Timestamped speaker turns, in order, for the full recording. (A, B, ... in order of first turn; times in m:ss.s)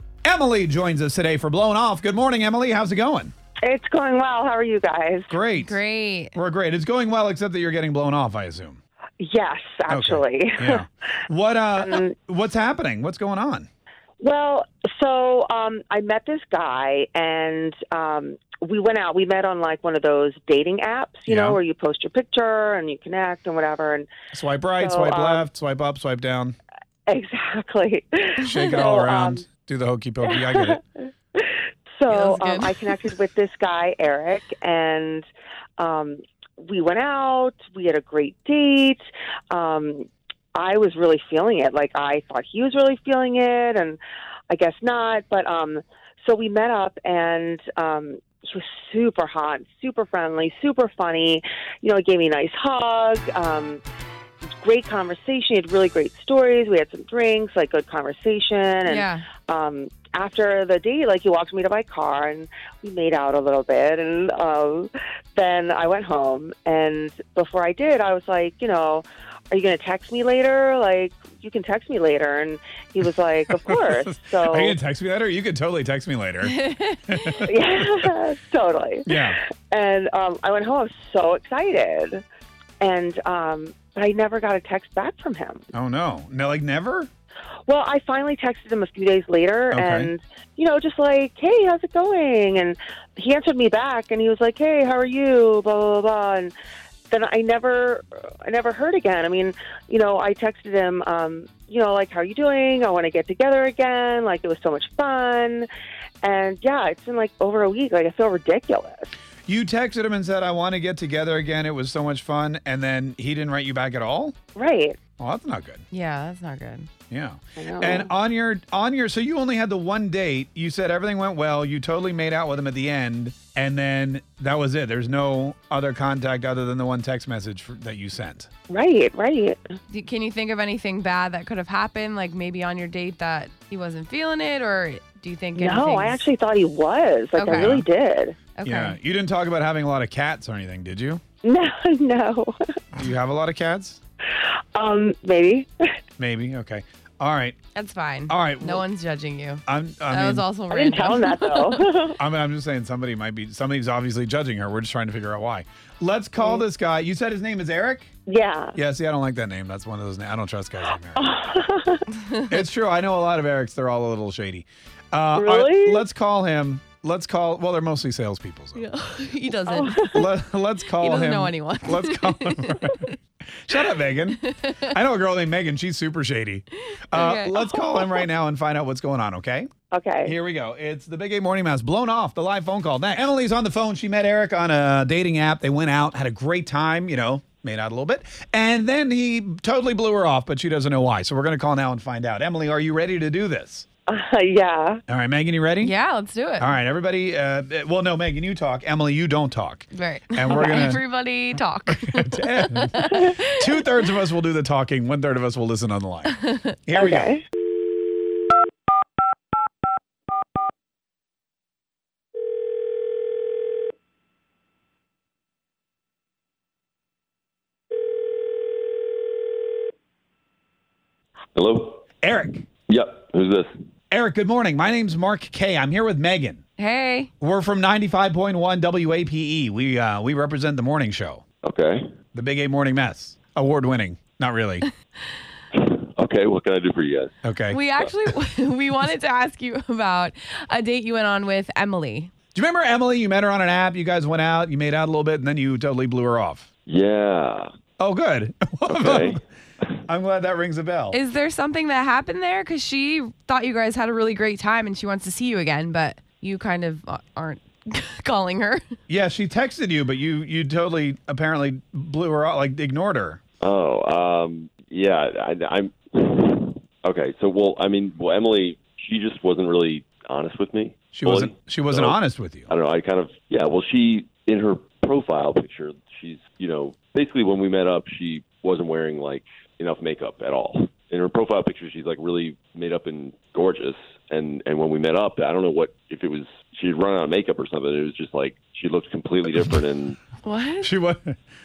0:00.2-0:03.3 A
0:03.6-0:05.4 B
0:05.3-0:05.8 A
0:05.6-0:06.4 C
0:06.3-0:08.8 A
0:09.2-0:10.8 B
0:09.9-0:13.7 A
0:11.8-0:12.1 B
0:14.2-0:24.1 B
0:21.3-0:21.6 A
0:24.3-0:26.6 A
0:24.8-0:25.5 B
0:27.1-0:29.4 B
0:28.4-0:30.8 A
0:30.2-0:30.8 B
0:31.4-0:35.3 B
0:32.1-0:33.1 C
0:35.8-0:44.0 B
0:44.5-0:53.8 B
0:54.6-1:14.8 B
0:58.9-0:59.3 C
1:13.5-1:18.1 A
1:16.7-1:17.4 C
1:17.4-1:19.2 B
1:19.1-1:19.4 A
1:19.7-1:22.2 B
1:22.8-1:25.7 B
1:25.7-1:27.1 A
1:27.7-1:36.5 B
1:29.7-1:30.1 A
1:37.1-1:45.7 B
1:46.2-1:49.1 B
1:49.5-1:54.4 A
1:54.6-1:55.0 B
1:55.2-1:55.8 A
1:55.9-1:56.9 C
1:57.1-2:08.5 A
1:57.6-1:58.1 B
2:08.7-2:09.6 B
2:09.9-2:16.2 C
2:15.6-2:18.4 B
2:17.4-2:17.8 C
2:17.6-2:17.9 A
2:18.6-2:19.0 C
2:18.6-2:21.2 A
2:21.4-2:22.5 B
2:22.9-2:24.0 A
2:24.4-2:25.9 B
2:26.2-2:27.6 A
2:27.8-2:31.8 C
2:28.3-2:28.8 A
2:29.7-2:30.5 A
2:30.7-2:32.2 B
2:32.2-2:38.1 A
2:38.3-2:38.8 B
2:38.8-2:41.3 A
2:41.2-2:42.0 B
2:42.4-2:48.9 A
2:45.4-2:46.0 B
2:48.8-2:50.3 C
2:49.7-2:50.1 B
2:50.1-2:53.1 A
2:51.0-2:53.0 C
2:53.6-2:59.7 A
2:54.4-2:54.8 C
2:57.1-2:58.2 C
2:59.9-3:00.4 B
3:00.2-3:13.9 A
3:14.1-3:15.0 B
3:15.1-3:16.0 A
3:15.8-3:16.8 C
3:16.6-3:21.0 A
3:19.9-3:23.5 C
3:21.9-3:27.4 A
3:27.0-3:27.4 B
3:41.6-3:42.0 D
3:42.2-3:42.7 A
3:42.9-3:43.7 D
3:44.1-3:46.6 A
3:46.8-3:47.3 C
3:47.4-3:51.4 A
3:51.6-3:52.0 D
3:52.3-3:54.9 A
3:55.7-3:57.4 D
3:57.4-3:57.8 A
3:57.7-4:02.3 C
4:02.6-4:06.7 A
4:06.9-4:07.7 D
4:08.0-4:09.4 A
4:08.9-4:09.4 D
4:10.1-4:11.2 A
4:11.1-4:18.8 C
4:19.1-4:23.4 A
4:23.6-4:50.2 D
4:31.1-4:32.7 A
4:50.4-4:50.9 C
4:50.8-4:51.4 A